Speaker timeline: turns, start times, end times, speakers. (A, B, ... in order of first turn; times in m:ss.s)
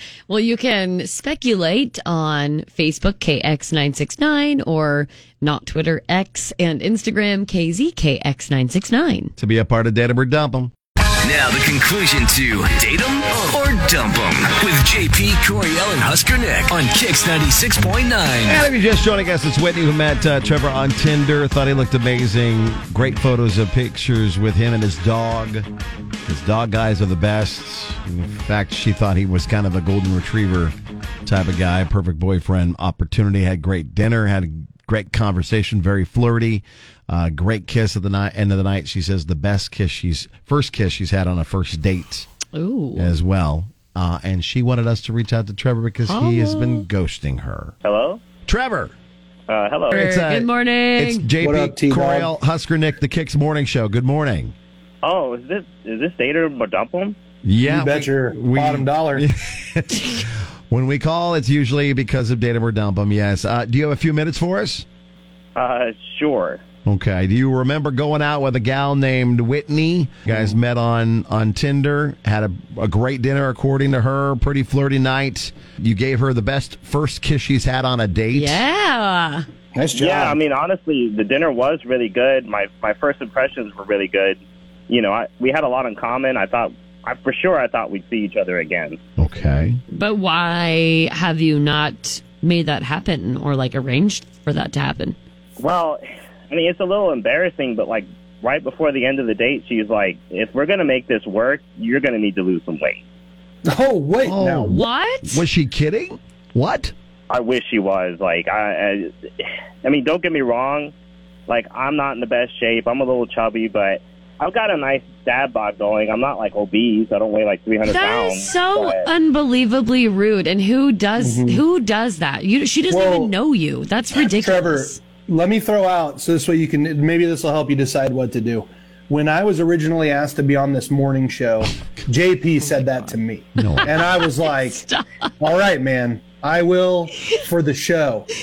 0:00.3-0:09.3 A
0:09.4-0:10.7 B
0:11.2-0:18.6 C
0:18.4-0:25.7 B
0:26.2-0:42.3 B
0:42.5-0:43.1 A
0:43.0-0:47.7 B
0:46.0-0:46.8 A
0:47.8-0:48.2 D
0:48.4-0:48.9 B
0:49.5-0:49.9 D
0:49.9-0:51.3 A
0:49.9-0:54.5 B
0:51.4-0:52.3 E
0:55.0-0:57.2 D
0:57.4-1:04.8 B
0:57.6-0:59.2 E
1:05.6-1:06.6 D
1:06.8-1:18.6 B
1:18.3-1:19.4 A
1:19.7-1:20.4 E
1:19.9-1:29.0 D
1:29.2-1:29.8 B
1:29.9-1:35.2 A
1:35.6-1:43.0 D
1:43.6-1:44.8 E
1:44.2-1:46.9 B
1:44.7-1:45.4 A
1:47.3-1:50.9 D
1:51.5-1:59.1 D
1:57.8-2:05.0 A
2:01.2-2:01.6 E
2:02.9-2:03.3 E
2:04.3-2:14.8 E
2:12.6-2:13.2 A
2:13.6-2:13.9 B
2:13.8-2:15.3 A
2:15.4-2:18.3 E